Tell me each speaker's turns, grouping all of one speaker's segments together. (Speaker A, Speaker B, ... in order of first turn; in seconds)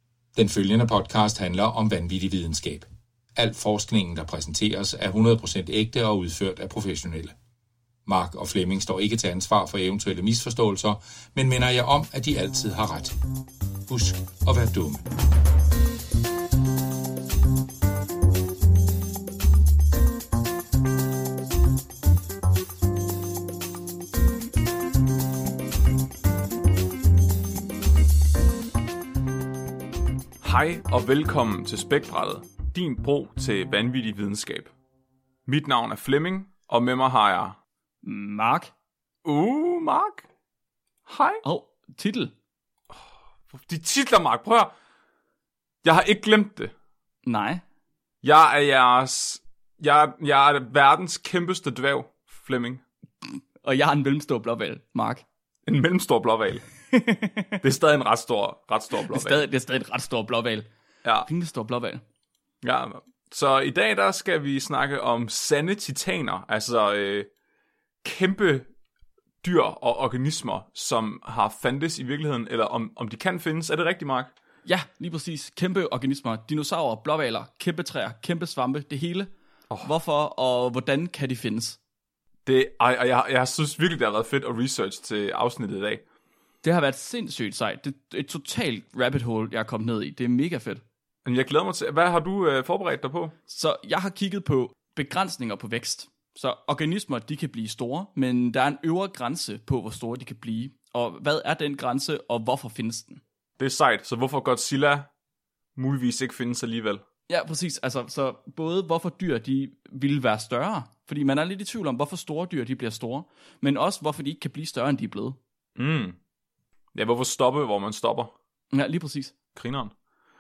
Speaker A: 0.3-7.3, 8.1-13.1, 13.9-15.0
Speaker B: 30.4-34.7, 35.5-37.6, 39.2-40.3, 41.1-41.4, 43.5-44.7, 45.8-46.7, 48.2-52.8, 55.7-56.6, 57.6-59.5, 62.6-67.3, 68.0-68.7, 69.4-74.3, 82.5-86.0, 91.2-93.3, 103.6-105.1, 105.8-107.0, 115.8-116.2, 116.9-118.3, 119.5-119.9
Speaker C: 38.0-38.7, 41.4-42.3, 47.3-47.6, 53.6-55.2, 56.9-57.6, 59.0-60.7, 61.3-62.0, 74.7-79.3, 79.8-81.8, 86.6-90.8, 93.5-103.2, 107.3-115.4, 118.7-119.3